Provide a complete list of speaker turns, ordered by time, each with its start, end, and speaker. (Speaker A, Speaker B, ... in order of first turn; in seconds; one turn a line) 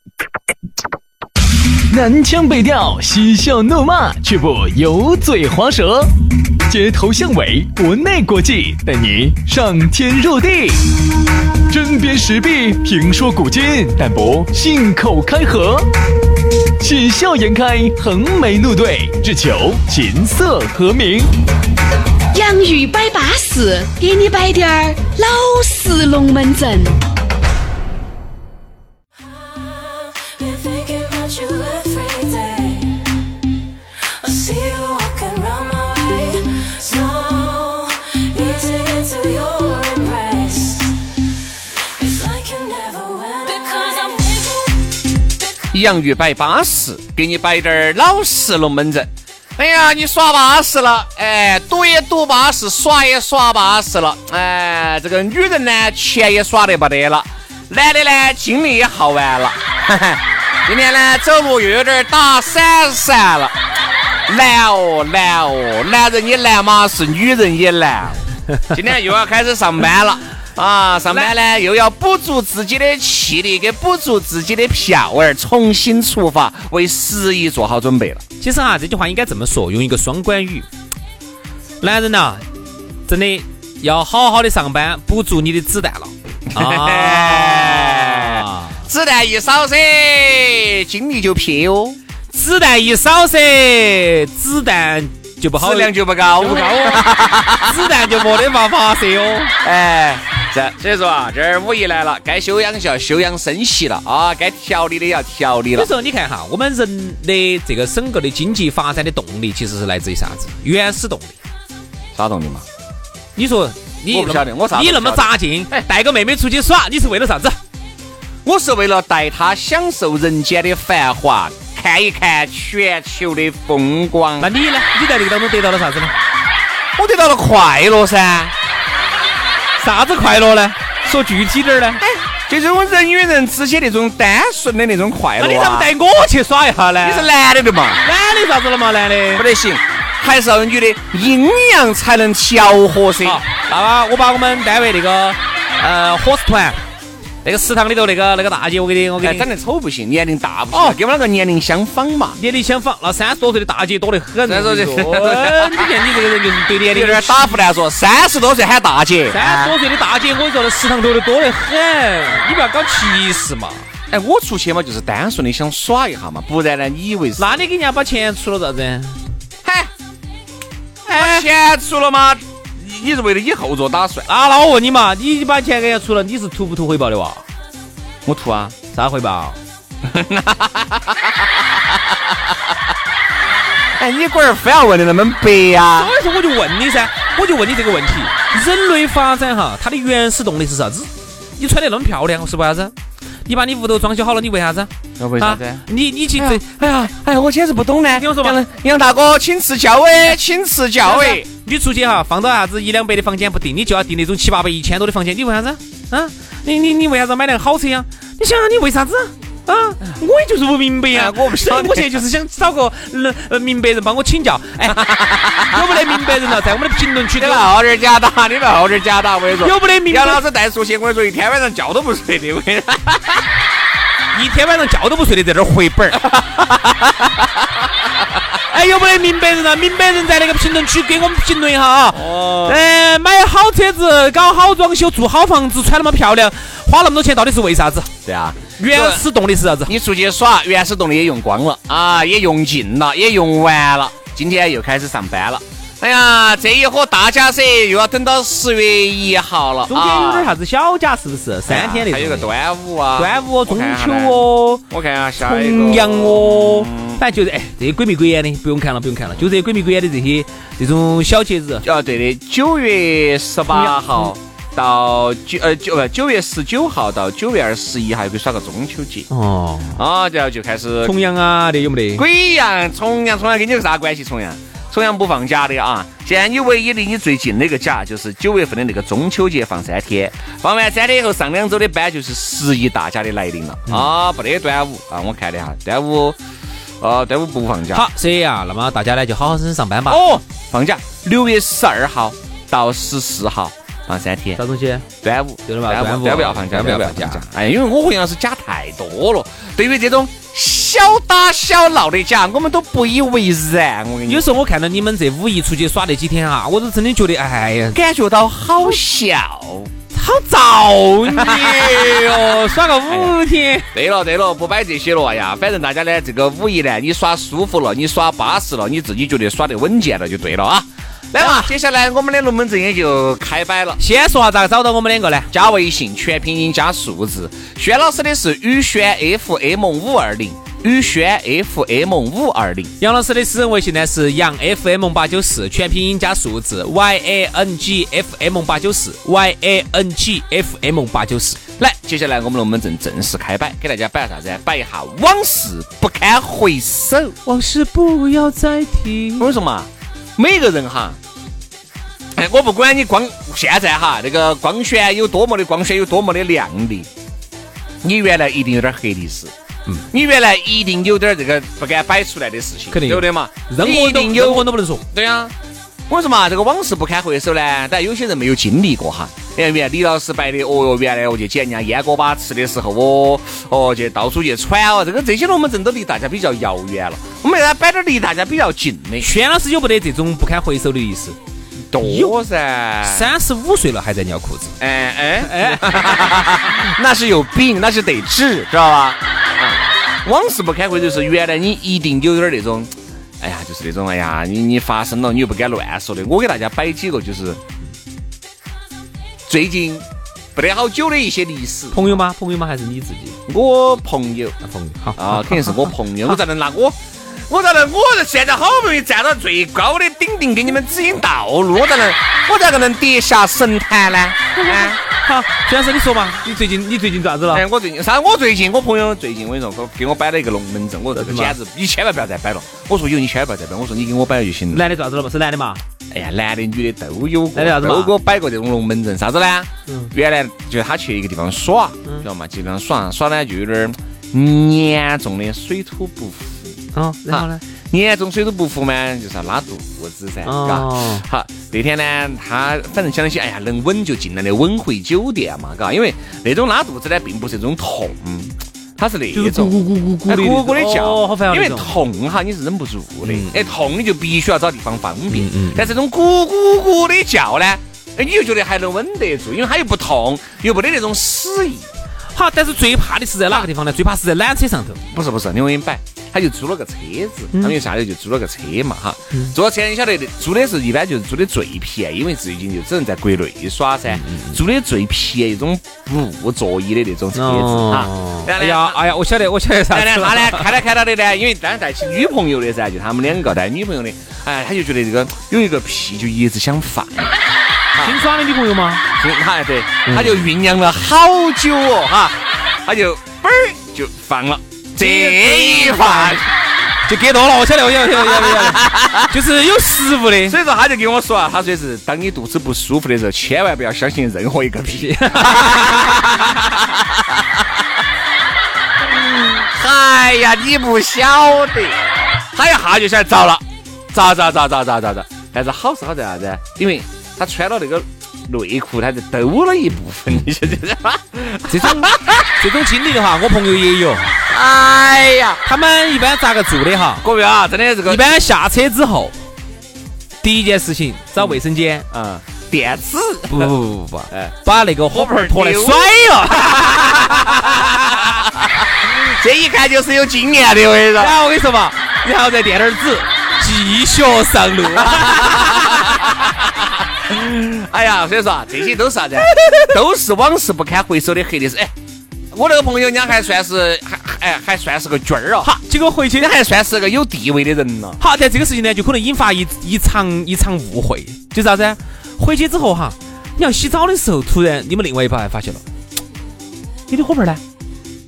Speaker A: 1.9-6.1
Speaker A: 6.7-10.8
Speaker A: 11.7-15.9
Speaker A: 16.8-21.3
Speaker B: 22.3-27.0
Speaker C: 29.2-33.0
Speaker C: 34.2-41.0
Speaker C: 41.8-44.8
Speaker D: 45.7-63.5
Speaker D: 64.3-78.2
Speaker E: 78.4-80.7
Speaker E: 81.8-82.4
Speaker E: 83.1-88.7
Speaker D: 86.5-92.0
Speaker E: 92.3-99.5
Speaker D: 95.5-98.2
Speaker D: 99.6-105.9
Speaker E: 105.7-111.4
Speaker D: 112.1-112.6
Speaker E: 113.3-117.6
Speaker D: 114.1-115.8
Speaker D: 118.4-124.5
Speaker E: 124.4-126.1
Speaker D: 127.0-128.5
Speaker E: 129.8-132.0
Speaker D: 132.0-135.9
Speaker E: 135.4-137.3
Speaker D: 137.0-138.0
Speaker E: 138.0-139.4
Speaker D: 139.3-143.4
Speaker E: 143.2-146.8
Speaker E: 147.4-149.5
Speaker D: 149.2-152.4
Speaker E: 150.7-151.0
Speaker E: 152.4-157.6
Speaker D: 154.4-155.9
Speaker D: 156.8-159.7
Speaker E: 159.3-163.8
Speaker D: 164.1-167.6
Speaker E: 167.4-169.2
Speaker D: 169.6-169.9
Speaker D: 171.1-174.3
Speaker E: 171.1-171.4
Speaker E: 174.3-177.4
Speaker D: 178.2-178.8
Speaker E: 178.9-179.6
Speaker D: 180.0-182.0
Speaker D: 183.9-186.1
Speaker E: 185.9-192.9
Speaker E: 193.5-196.6
Speaker D: 195.2-195.8
Speaker D: 196.3-201.4
Speaker E: 198.2-198.6
Speaker E: 201.0-217.7
Speaker D: 211.1-212.2
Speaker D: 214.9-216.2
Speaker D: 217.4-223.5
Speaker E: 219.6-220.4
Speaker E: 224.3-226.3
Speaker D: 226.2-227.4
Speaker E: 228.7-238.1
Speaker D: 232.1-232.8
Speaker D: 238.2-239.2
Speaker E: 238.8-239.9
Speaker D: 239.8-250.5
Speaker E: 249.9-252.5
Speaker D: 251.7-257.2
Speaker E: 253.2-254.8
Speaker E: 255.4-261.8
Speaker D: 261.8-269.3
Speaker E: 263.7-264.3
Speaker E: 269.3-270.0
Speaker D: 269.9-271.2
Speaker E: 271.0-272.2
Speaker D: 272.1-286.4
Speaker D: 287.0-288.1
Speaker E: 287.9-290.2
Speaker D: 290.1-294.6
Speaker E: 294.6-295.1
Speaker D: 295.2-304.5
Speaker E: 295.7-297.4
Speaker E: 304.3-308.0
Speaker D: 307.9-309.9
Speaker E: 310.1-313.9
Speaker D: 311.3-313.4
Speaker D: 313.9-324.0
Speaker E: 321.4-321.7
Speaker E: 324.0-325.5
Speaker D: 325.5-332.9
Speaker E: 333.0-341.6
Speaker D: 341.8-347.3
Speaker E: 347.4-349.5
Speaker D: 349.4-351.2
Speaker D: 352.3-357.1
Speaker D: 358.0-359.5
Speaker D: 360.1-365.5
Speaker E: 362.9-365.0
Speaker D: 366.1-379.3
Speaker E: 379.2-381.4
Speaker D: 381.9-383.3
Speaker E: 382.0-382.3
Speaker E: 383.0-384.8
Speaker D: 384.8-397.6
Speaker E: 385.4-386.6
Speaker D: 399.5-402.2
Speaker E: 401.9-403.4
Speaker D: 403.5-404.6
Speaker E: 404.6-405.9
Speaker D: 405.1-407.0
Speaker D: 407.5-415.0
Speaker E: 414.6-417.6
Speaker D: 417.5-424.8
Speaker E: 421.1-421.6
Speaker E: 424.7-425.8
Speaker D: 426.1-436.7
Speaker E: 427.5-428.1
Speaker E: 436.9-437.6
Speaker D: 437.3-461.9
Speaker E: 440.4-441.2
Speaker E: 449.3-452.0
Speaker E: 453.2-453.6
Speaker E: 455.3-455.9
Speaker E: 462.3-465.0
Speaker D: 465.1-479.0
Speaker E: 467.5-467.8
Speaker E: 474.1-474.6
Speaker E: 477.3-480.7
Speaker D: 479.9-487.4
Speaker E: 488.0-489.0
Speaker D: 489.1-496.5
Speaker E: 490.1-490.4
Speaker E: 495.0-496.5
Speaker E: 497.1-500.6
Speaker D: 498.1-499.3
Speaker D: 500.4-507.6
Speaker E: 504.9-506.6
Speaker D: 509.3-522.5
Speaker E: 521.7-524.3
Speaker D: 524.5-525.6
Speaker E: 525.6-527.2
Speaker D: 527.2-528.3
Speaker E: 528.0-529.3
Speaker E: 530.4-532.0
Speaker D: 531.4-533.8
Speaker E: 533.5-538.4
Speaker D: 535.1-541.4
Speaker E: 541.2-546.1
Speaker D: 545.0-551.9
Speaker E: 549.4-549.9
Speaker D: 552.5-555.7
Speaker E: 555.6-556.5
Speaker D: 556.4-558.2
Speaker E: 558.2-565.8
Speaker E: 567.1-567.6